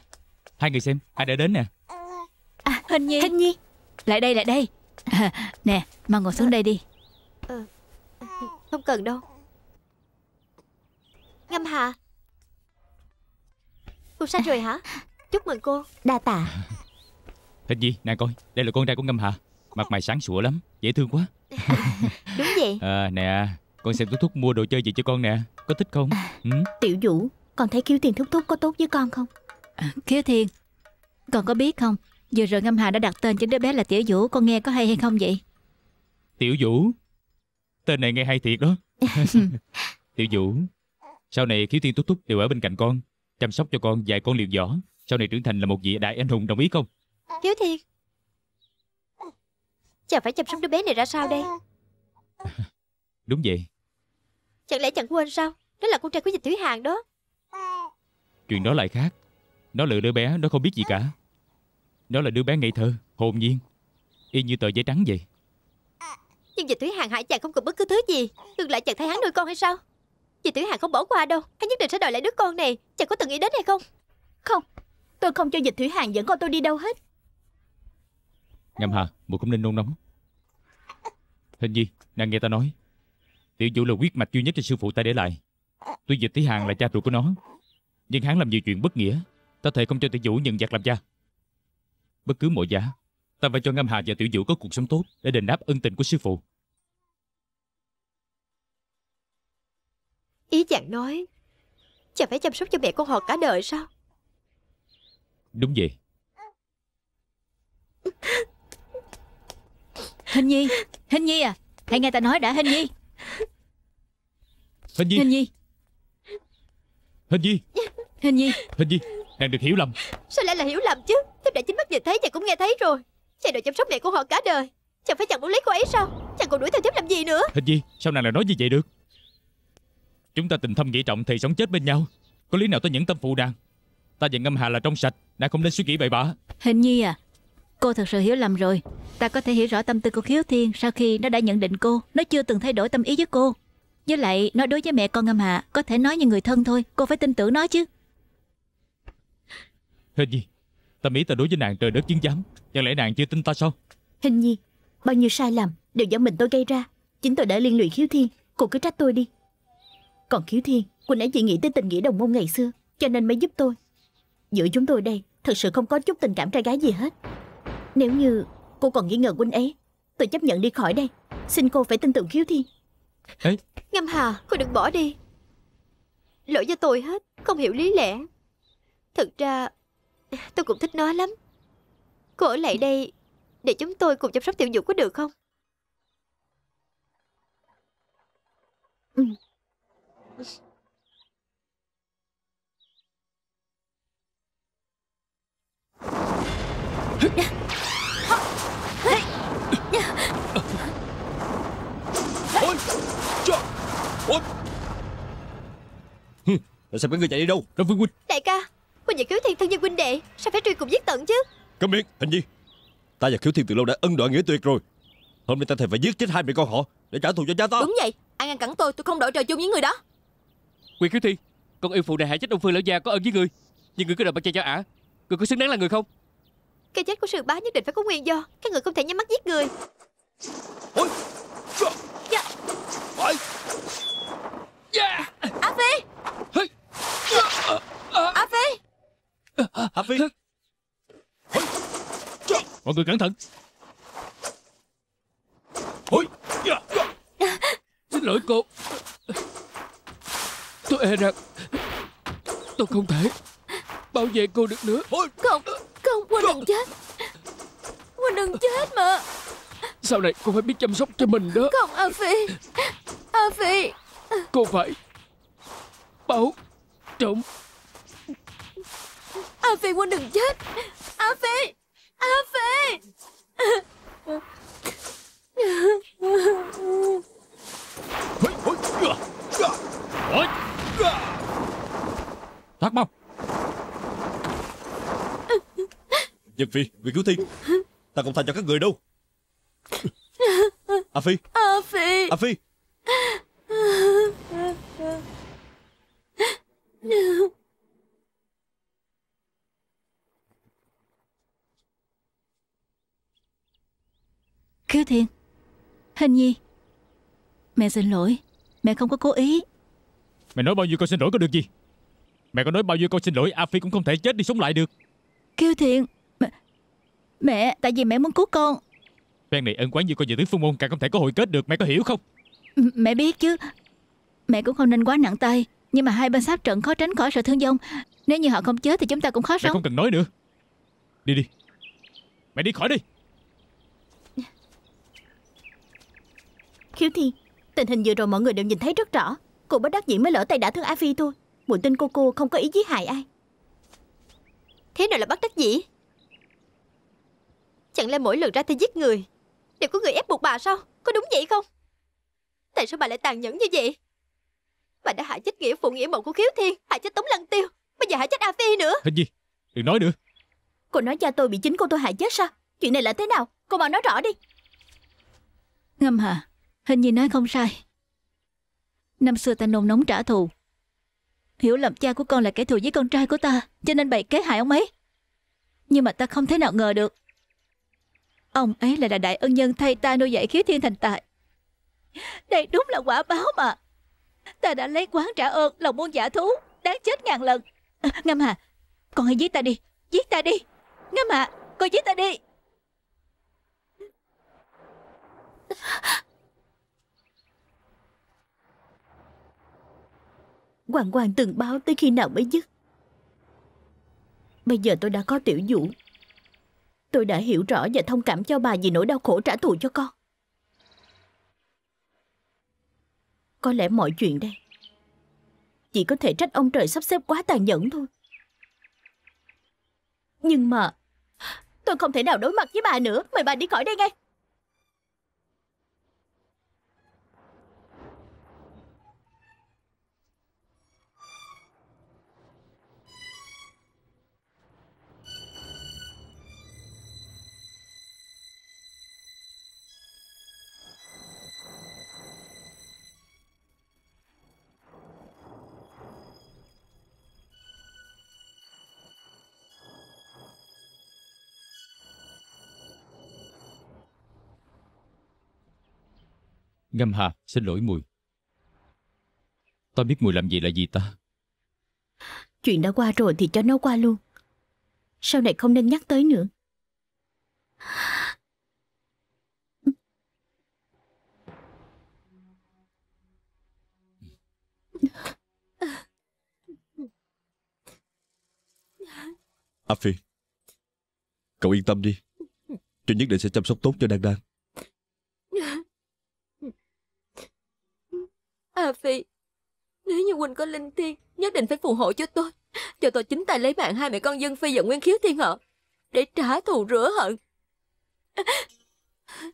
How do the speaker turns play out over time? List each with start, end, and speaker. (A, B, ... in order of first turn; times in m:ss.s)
0:00.6-0:01.7 A
0:02.6-0:03.6 B
0:02.9-0:03.3 C
0:04.0-0:06.8 C
0:08.2-0:09.2 D
0:11.5-0:12.0 D
0:14.2-0:15.9 D
0:16.0-0:16.5 B
0:17.7-0:26.7 A
0:22.3-0:22.8 D
0:26.3-0:29.3 B
0:29.8-0:30.5 C
0:31.3-0:35.4 C
0:36.4-0:36.9 A
0:37.8-0:39.6 A
0:40.2-0:40.7 A
0:41.3-0:46.9 A
0:47.4-0:47.8 D
0:50.1-0:51.5 D
0:53.3-0:53.6 A
0:54.7-0:57.0 D
0:58.5-0:59.1 A
0:59.7-1:01.1 A
1:02.1-1:03.6 A
1:04.3-1:05.2 A
1:06.6-1:09.8 D
1:10.4-1:13.8 D
1:15.2-1:17.0 B
1:18.8-1:20.0 A
1:21.6-1:22.7 A
1:23.6-1:25.4 A
1:26.1-1:27.4 A
1:28.1-1:31.0 A
1:32.2-1:36.4 A
1:40.5-1:41.2 D
1:42.1-1:43.9 D
1:45.5-1:45.9 A
1:50.3-1:52.9 C
1:55.0-1:55.3 A
1:55.1-1:55.5 C
1:57.3-1:57.6 A
1:58.2-1:58.6 C
1:58.8-2:00.0 A
2:00.3-2:07.5 D
2:07.5-2:08.8 A
2:10.3-2:13.5 A
2:14.2-2:16.4 A
2:16.6-2:17.2 C
2:17.8-2:27.9 C
2:30.2-2:30.4 A
2:31.0-2:33.7 A
2:34.2-2:39.3 B
2:40.3-2:43.8 B
2:44.5-2:47.1 B
2:47.9-2:52.7 B
2:53.9-2:55.2 D
2:56.5-2:58.3 D
2:59.1-2:59.7 D
3:00.3-3:01.3 D
3:02.4-3:03.1 D
3:03.6-3:05.3 D
3:19.9-3:20.2 D
3:26.4-3:27.7 E
3:27.8-3:28.1 A
3:28.3-3:31.4 D
3:31.8-3:32.4 E
3:33.2-3:34.8 E
3:35.5-3:37.9 E
3:37.8-3:40.0 F
3:41.0-3:46.0 G
3:46.9-3:49.7 D
3:54.9-3:55.5 H
3:55.6-3:56.0 D
3:57.3-3:58.4 H
3:58.3-3:58.8 D
3:59.6-4:00.3 H
3:59.9-4:00.2 E
4:02.8-4:03.3 A
4:06.1-4:07.0 H
4:08.1-4:09.3 H
4:10.9-4:11.8 H
4:12.8-4:13.4 H
4:14.1-4:15.3 H
4:15.4-4:16.9 F
4:18.2-4:19.2 F
4:20.0-4:21.7 H
4:21.6-4:24.4 F
4:24.5-4:25.0 H
4:26.3-4:26.6 H
4:27.2-4:27.4 H
4:29.6-4:33.0 F
4:33.6-4:34.4 F
4:35.6-4:37.2 F
4:38.4-4:39.7 H
4:42.8-4:43.1 A
4:46.5-4:47.5 E
4:48.1-4:49.0 E
4:50.4-4:51.0 F
4:51.1-4:51.4 E
4:51.5-4:52.4 F
4:52.3-4:52.6 E
4:53.1-4:54.7 F
4:57.0-4:57.5 F
5:04.9-5:05.3 C
5:06.2-5:06.6 C
5:07.8-5:09.6 C
5:10.5-5:11.7 A
5:12.5-5:14.9 A
5:15.6-5:16.5 C
5:17.4-5:18.8 C
5:19.5-5:22.2 A
5:22.8-5:23.7 C
5:24.5-5:29.8 C
5:29.6-5:30.3 A
5:32.5-5:33.0 A
5:36.9-5:43.3 B
5:44.9-5:45.8 D
5:47.9-5:49.3 D
5:49.8-5:51.6 D
5:52.7-5:54.0 D
5:55.0-5:59.0 D
5:59.0-6:00.2 A
6:00.9-6:04.4 B
6:06.0-6:07.8 C
6:09.2-6:10.5 C
6:11.6-6:14.9 C
6:15.9-6:17.1 C
6:18.5-6:21.2 C
6:22.2-6:23.8 C
6:24.6-6:28.6 C
6:29.1-6:32.4 C
6:40.9-6:42.6 B
6:44.6-6:45.9 B
6:47.1-6:50.1 B
6:53.6-6:54.6 B
6:55.9-6:58.1 B
7:00.4-7:00.9 B
7:01.8-7:04.1 B
7:36.9-7:38.0 A
7:39.9-7:41.1 A
7:42.6-7:44.2 B
7:45.2-7:46.5 B
7:59.9-8:00.2 E
8:01.6-8:02.2 E
8:03.0-8:04.4 E
8:05.5-8:05.8 F
8:08.7-8:09.2 F
8:10.0-8:15.6 F
8:16.1-8:17.4 F
8:18.4-8:18.6 F